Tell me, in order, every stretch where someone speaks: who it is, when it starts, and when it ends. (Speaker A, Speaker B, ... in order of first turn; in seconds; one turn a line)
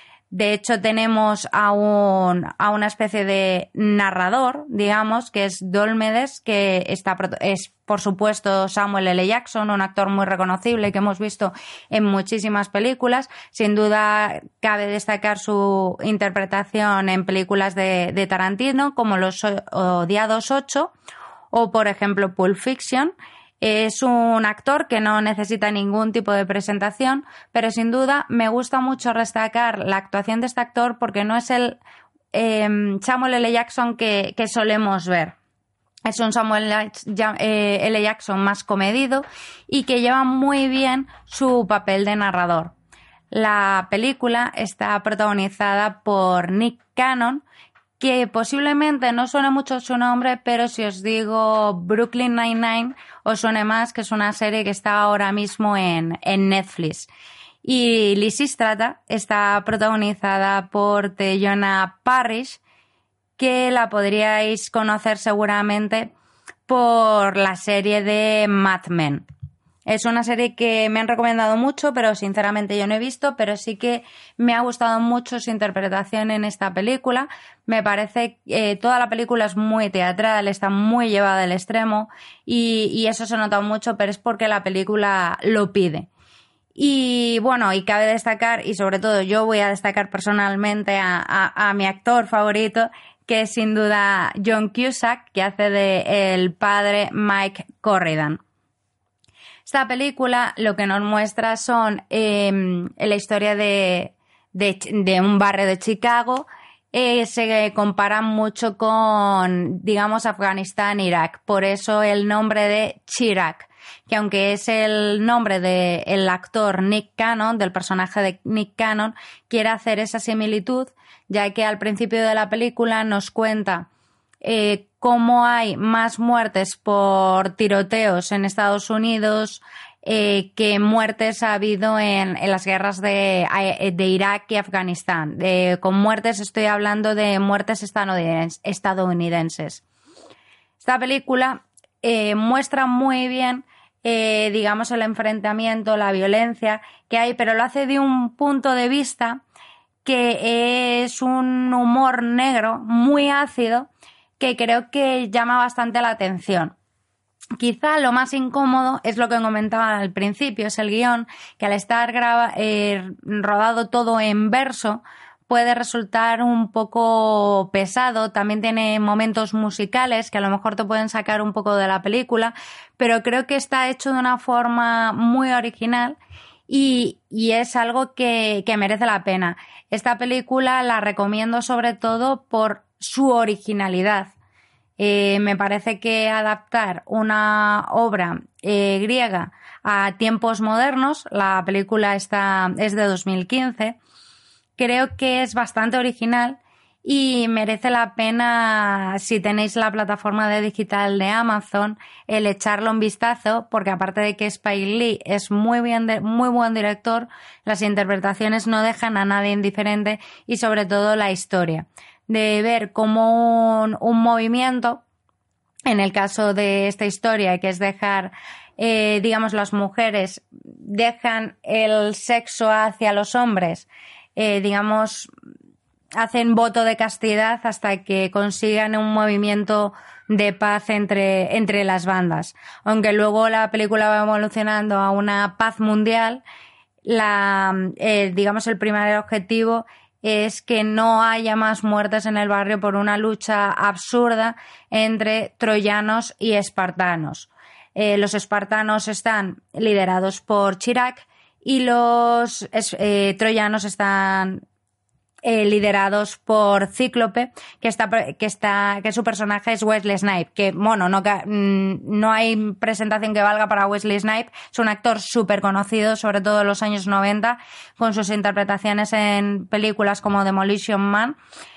Speaker A: 0.3-20.9
Speaker A: 21.5-31.8
Speaker A: 32.3-35.4
Speaker A: 36.1-42.7
Speaker A: 43.3-47.5
Speaker A: 48.0-57.1
Speaker A: 57.6-62.6
Speaker A: 63.4-66.1
Speaker A: 66.7-69.2
Speaker A: 69.9-86.1
Speaker A: 86.8-98.4
Speaker A: 99.7-123.9
Speaker A: 124.4-139.8
Speaker A: 140.8-149.4
Speaker A: 150.1-156.8
Speaker A: 157.6-176.2
Speaker A: 176.7-184.3
Speaker A: 185.0-194.0
Speaker A: 194.8-215.0
Speaker A: 215.9-225.3
Speaker A: 226.2-236.4
Speaker A: 237.0-254.6
Speaker A: 255.4-271.4